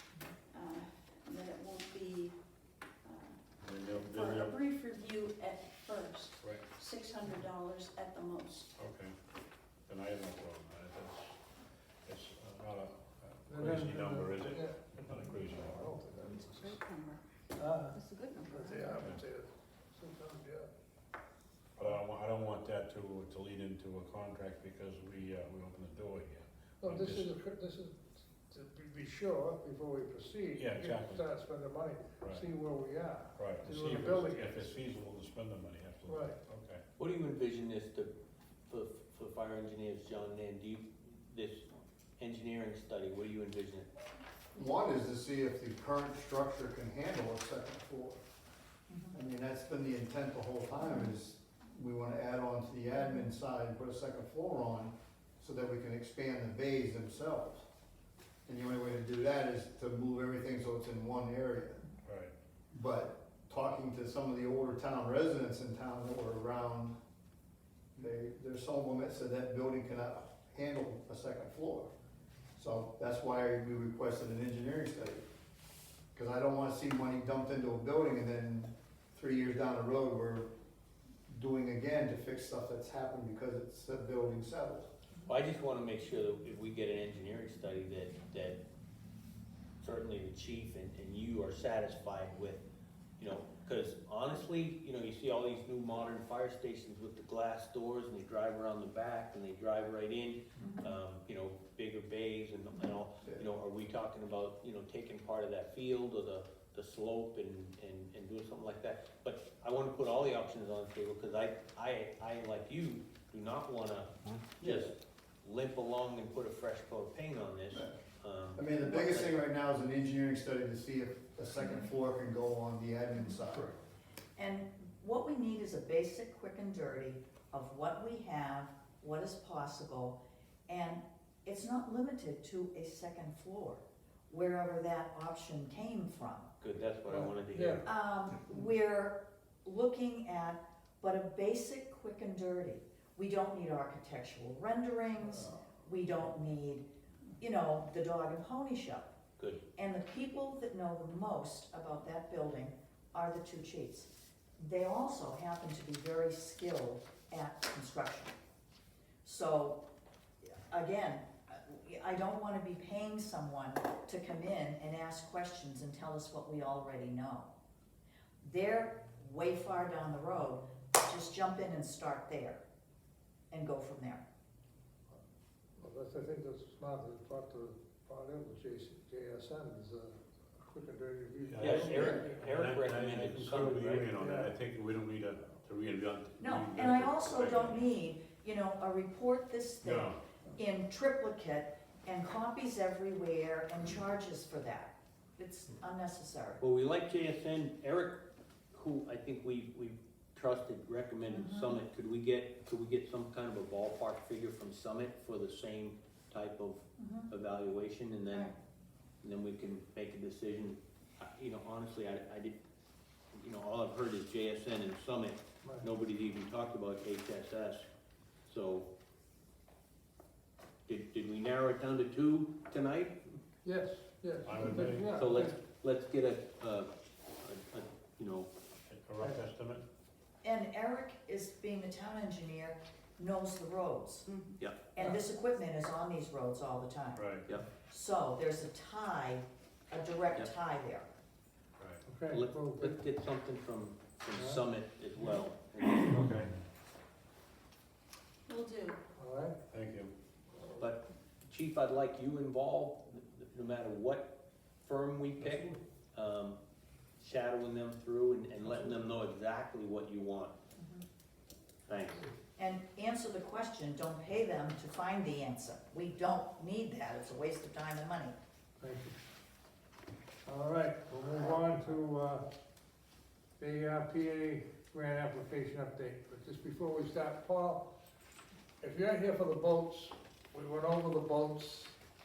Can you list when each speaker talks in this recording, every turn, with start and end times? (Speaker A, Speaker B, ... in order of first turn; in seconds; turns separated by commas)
Speaker A: 0.5-2.3, Speaker A: 3.0-3.4, Speaker B: 3.6-4.5, Speaker A: 3.9-8.7, Speaker B: 8.8-9.1, Speaker B: 9.9-11.4, Speaker B: 12.1-15.9, Speaker C: 13.5-16.8, Speaker D: 16.2-17.2, Speaker C: 17.6-20.7, Speaker D: 17.9-19.0, Speaker B: 21.8-27.3, Speaker C: 26.8-34.7, Speaker B: 30.6-31.2, Speaker B: 32.2-32.5, Speaker B: 33.4-36.8, Speaker C: 36.0-36.4, Speaker E: 37.0-38.1, Speaker E: 38.7-43.9, Speaker F: 44.5-48.2, Speaker F: 49.1-57.6, Speaker G: 50.8-51.1, Speaker F: 58.5-61.8, Speaker B: 62.0-62.3, Speaker F: 62.7-67.0, Speaker F: 67.9-71.9, Speaker F: 72.6-75.2, Speaker F: 76.1-80.5, Speaker F: 81.3-84.9, Speaker E: 85.2-88.6, Speaker E: 89.8-92.6, Speaker E: 93.2-119.4, Speaker G: 100.6-100.9, Speaker F: 114.6-114.9, Speaker F: 117.7-118.0, Speaker F: 118.5-123.7, Speaker G: 124.4-136.5, Speaker E: 136.6-137.8, Speaker C: 137.1-137.8, Speaker G: 137.8-146.8, Speaker G: 147.4-149.1, Speaker G: 149.7-158.3, Speaker G: 159.2-159.8, Speaker G: 160.7-167.5, Speaker G: 168.4-172.6, Speaker G: 173.5-174.2, Speaker C: 175.8-182.4, Speaker B: 181.5-187.8, Speaker E: 181.6-184.1, Speaker C: 184.2-184.5, Speaker G: 186.4-196.6, Speaker B: 189.8-190.2, Speaker E: 196.6-198.2, Speaker E: 198.7-208.5, Speaker G: 201.3-201.8, Speaker G: 207.0-207.3, Speaker E: 209.2-212.6, Speaker E: 213.3-217.8, Speaker E: 218.5-218.9, Speaker E: 220.9-223.4, Speaker C: 223.6-225.6, Speaker B: 224.4-225.3, Speaker E: 225.1-226.9, Speaker E: 227.4-228.5, Speaker B: 228.9-229.8, Speaker G: 230.4-234.3, Speaker E: 234.6-234.8, Speaker G: 234.9-237.2, Speaker B: 237.2-237.4, Speaker G: 237.9-241.1, Speaker C: 242.0-243.0, Speaker E: 242.3-246.2, Speaker C: 244.3-244.6, Speaker B: 246.1-246.5, Speaker A: 248.5-249.0, Speaker C: 249.2-249.6, Speaker B: 249.7-250.1, Speaker E: 250.8-256.6, Speaker E: 257.2-260.6, Speaker G: 260.8-261.0, Speaker E: 261.9-262.3, Speaker G: 262.6-268.3, Speaker C: 268.8-269.1, Speaker C: 270.4-272.4, Speaker C: 273.6-277.9, Speaker C: 278.8-282.0